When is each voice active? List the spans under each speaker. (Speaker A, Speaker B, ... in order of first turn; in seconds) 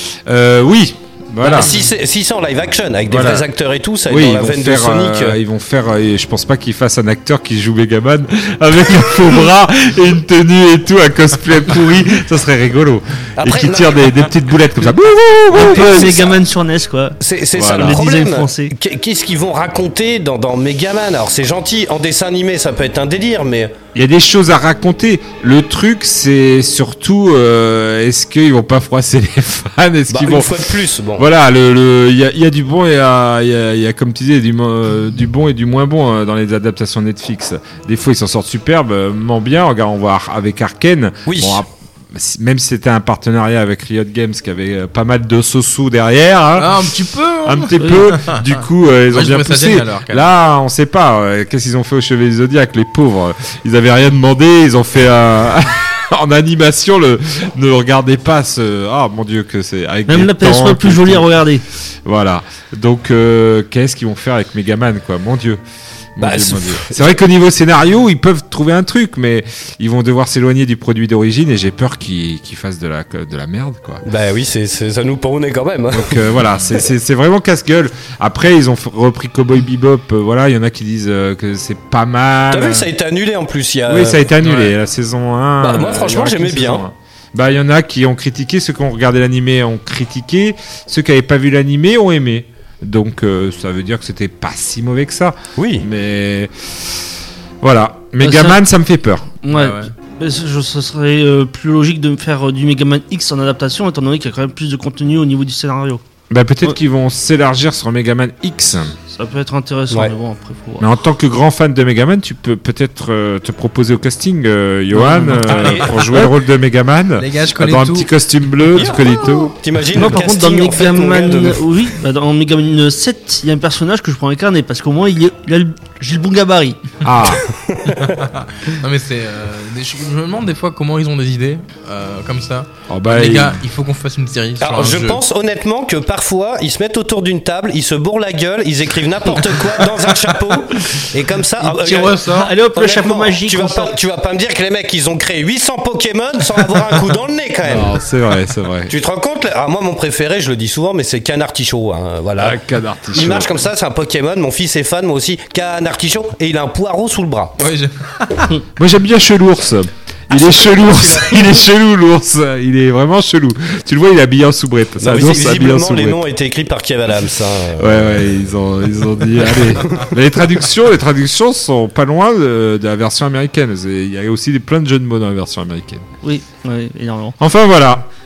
Speaker A: 0.3-1.7, 3.1-3.5, 4.1-16.2, 17.5-18.0, 23.9-46.9, 47.4-61.3, 62.0-65.6, 66.2-74.0, 75.9-82.9, 83.9-97.0, 97.6-99.3, 106.3-109.0, 110.8-119.6, 127.0-127.4, 132.9-133.6, 147.6-148.9, 152.4-153.6, 158.8-166.2, 167.8-176.1, 177.4-178.1
Speaker B: 1.4-1.9, 46.6-48.6, 49.1-50.3, 84.4-84.7, 99.5-99.9, 115.1-116.2, 117.2-118.1, 128.0-135.2, 141.7-142.5, 157.6-158.6
Speaker C: 1.5-5.4, 13.4-14.1, 15.6-16.4, 17.2-23.7, 30.1-31.3, 41.3-41.6, 66.2-67.1, 74.0-76.2, 82.5-84.3, 85.6-86.8, 95.6-95.9, 115.5-115.9, 118.8-121.7, 127.4-128.2, 134.6-148.0, 148.9-152.6, 153.1-157.6, 160.3-161.6, 165.0-168.2
Speaker D: 15.5-17.2, 17.7-18.7, 60.1-61.6, 98.2-98.6, 99.4-106.0, 109.1-110.9, 119.9-126.8, 142.1-143.9, 176.2-177.3